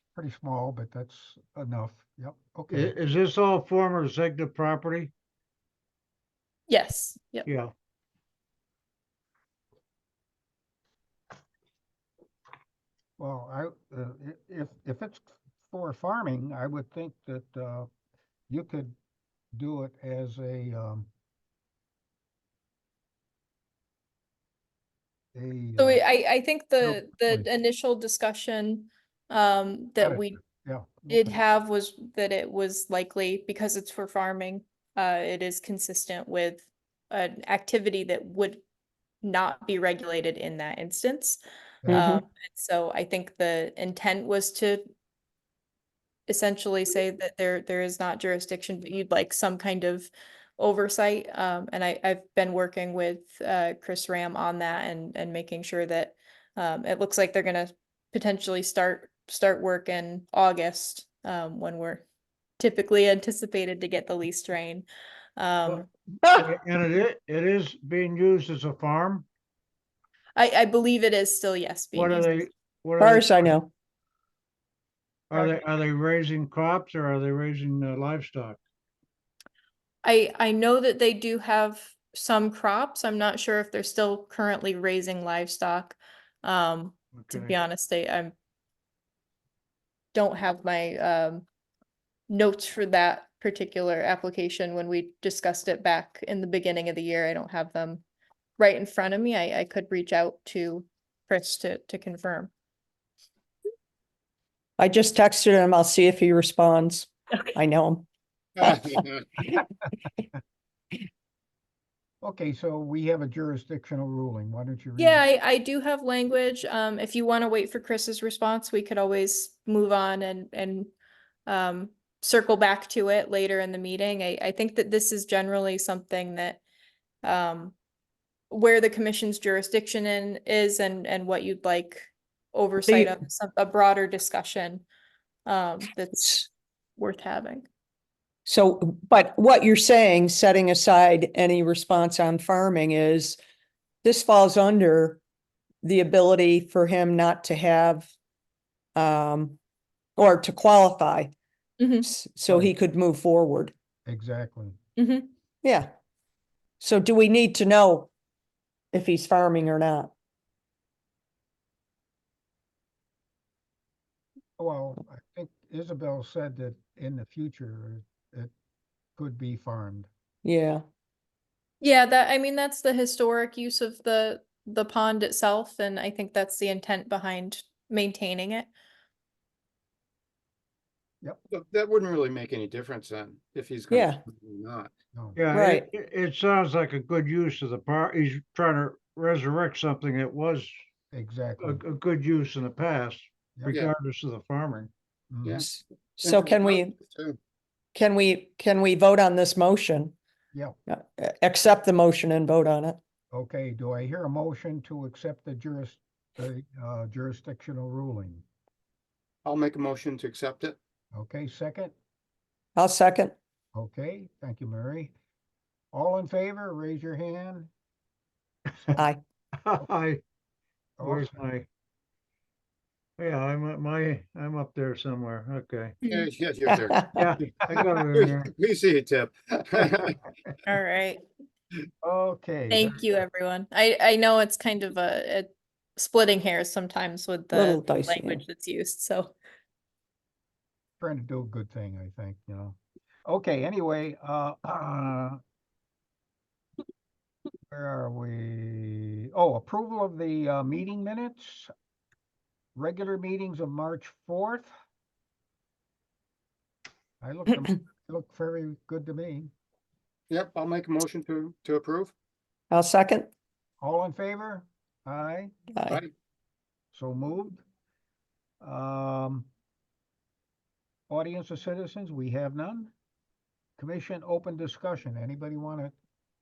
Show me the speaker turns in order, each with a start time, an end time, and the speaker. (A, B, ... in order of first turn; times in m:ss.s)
0:00.2-0:03.0 A
0:02.7-0:05.1 B
0:06.7-0:07.5 C
0:07.5-0:07.7 B
0:13.2-0:17.9 A
0:18.5-0:19.0 A
0:19.5-0:21.1 A
0:25.4-0:26.0 A
0:25.8-0:30.4 C
0:26.8-0:27.5 A
0:30.0-0:31.4 A
0:31.1-0:38.6 C
0:39.2-0:41.4 C
0:41.9-0:42.2 D
0:41.9-0:44.8 C
0:46.3-1:02.0 C
1:02.6-1:04.9 C
1:05.4-1:05.9 C
1:05.7-1:09.3 B
1:06.2-1:06.5 D
1:10.4-1:12.5 C
1:12.0-1:13.6 B
1:13.0-1:13.7 D
1:15.3-1:18.6 B
1:20.0-1:28.3 C
1:27.2-1:27.6 B
1:30.1-1:31.5 C
1:32.3-1:38.0 C
1:38.6-1:42.5 C
1:44.8-1:48.1 D
1:48.6-1:49.4 E
1:48.6-1:49.0 D
1:52.2-1:55.2 A
1:55.0-2:00.9 C
2:01.5-2:06.6 C
2:07.2-2:07.8 C
2:08.5-2:14.8 C
2:12.9-2:13.2 D
2:15.5-2:17.7 C
2:18.5-2:23.4 D
2:24.0-2:25.2 D
2:25.8-2:28.1 D
2:29.0-2:29.6 D
2:30.2-2:31.3 D
2:31.8-2:32.1 C
2:32.0-2:33.7 D
2:32.5-2:32.7 A
2:34.1-2:34.8 A
2:35.0-2:35.3 C
2:35.6-2:35.9 D
2:36.8-2:38.1 D
2:38.9-2:40.1 D
2:44.6-2:48.5 A
2:49.2-2:50.1 A
2:50.4-2:50.8 D
2:51.8-2:58.7 C
3:01.5-3:04.9 E
3:03.9-3:04.2 D
3:05.1-3:05.4 A
3:05.4-3:10.7 B
3:05.5-3:05.9 D
3:11.1-3:11.8 A
3:11.6-3:14.9 B
3:15.3-3:15.6 A
3:15.4-3:15.7 E
3:15.6-3:17.0 D
3:16.2-3:17.4 E
3:18.0-3:20.2 D
3:20.9-3:23.0 D
3:23.3-3:28.4 A
3:29.4-3:30.8 E
3:31.1-3:31.9 A
3:32.8-3:33.3 D
3:33.7-3:35.2 A
3:35.9-3:37.7 A
3:39.0-3:39.2 D
3:39.6-3:40.2 B
3:41.0-3:41.4 A
3:41.0-3:41.7 B
3:43.2-3:46.0 B
3:46.1-3:47.0 E
3:46.7-3:47.2 D
3:47.1-3:48.5 B
3:48.1-3:50.2 E
3:50.7-3:51.2 C
3:52.0-3:53.0 A
3:52.7-3:59.4 C
3:57.5-3:58.4 D
4:01.0-4:05.4 A
4:07.7-4:11.7 A
4:12.8-4:14.7 A
4:17.2-4:19.5 A
4:20.3-4:22.1 E
4:22.7-4:23.3 D
4:23.8-4:25.5 A
4:26.9-4:27.6 A
4:28.6-4:29.5 A
4:31.1-4:32.9 A
4:33.8-4:35.9 A